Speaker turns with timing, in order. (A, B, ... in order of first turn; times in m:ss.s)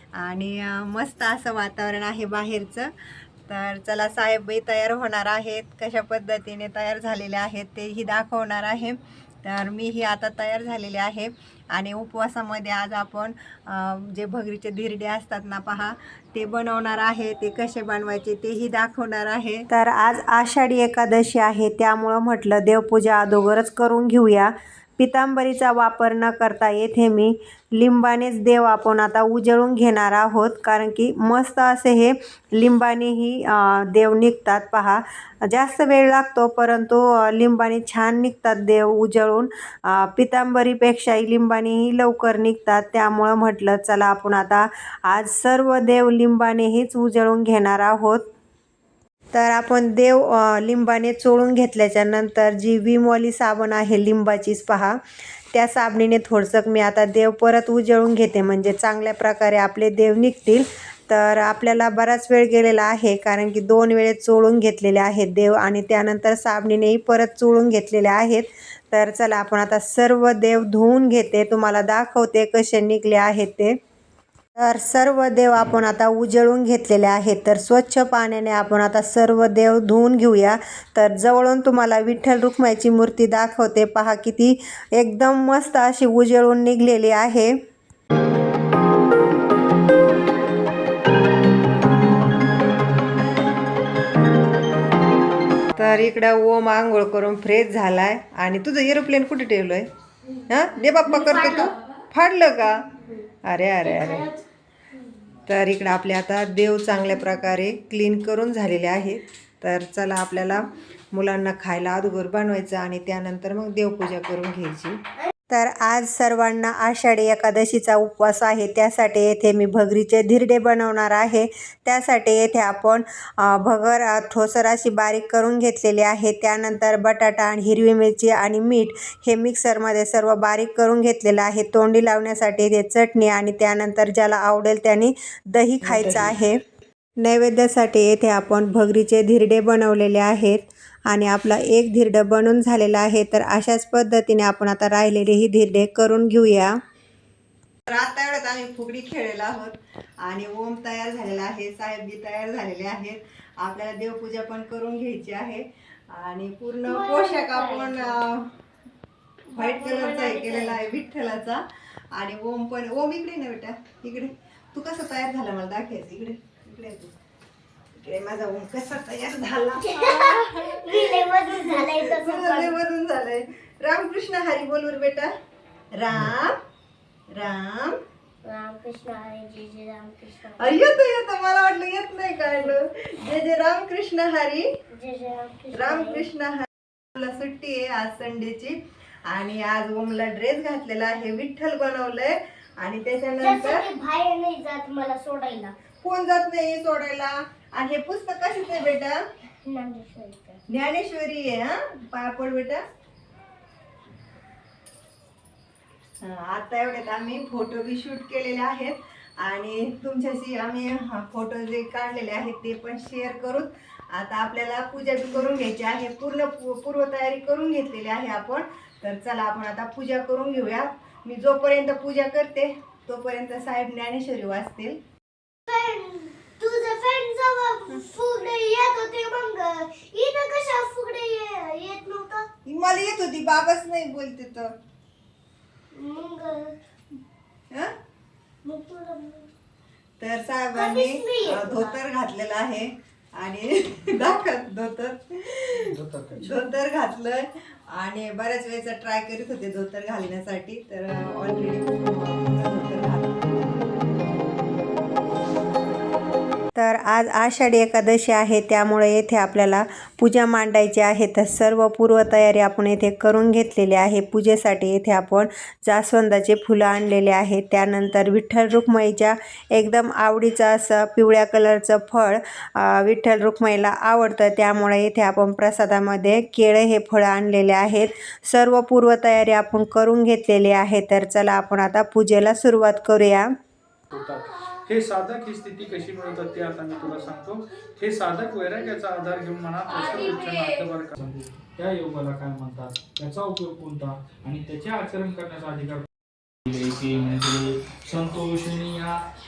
0:00.1-0:02.9 A
0:03.5-0:48.2 A
0:49.3-0:55.0 A
0:55.5-1:13.8 A
1:14.6-1:27.5 A
1:35.7-1:39.9 A
1:40.5-1:42.9 A
1:41.1-1:41.7 B
1:43.4-1:44.3 A
1:44.0-1:44.3 B
1:45.4-1:55.0 A
1:55.5-2:16.6 A
2:17.2-2:26.8 A
2:27.9-2:38.5 A
2:36.8-2:38.2 B
2:39.5-2:40.8 B
2:39.5-2:47.1 A
2:47.9-2:55.3 A
2:49.8-2:52.8 B
2:55.9-2:56.6 A
2:57.3-2:58.0 A
2:58.4-3:00.9 B
3:00.6-3:04.6 A
3:04.9-3:06.3 B
3:05.7-3:13.8 A
3:13.4-3:15.7 B
3:16.0-3:19.2 A
3:19.6-3:20.6 B
3:20.7-3:22.8 A
3:26.2-3:45.0 A
3:45.7-3:52.5 B
3:52.6-3:54.7 A
3:55.9-3:56.7 B
3:58.6-3:59.5 B
4:00.2-4:13.4 A
4:00.7-4:01.9 B
4:05.7-4:06.6 C
4:16.8-4:43.5 A
4:44.1-4:56.1 C
4:56.6-4:59.2 C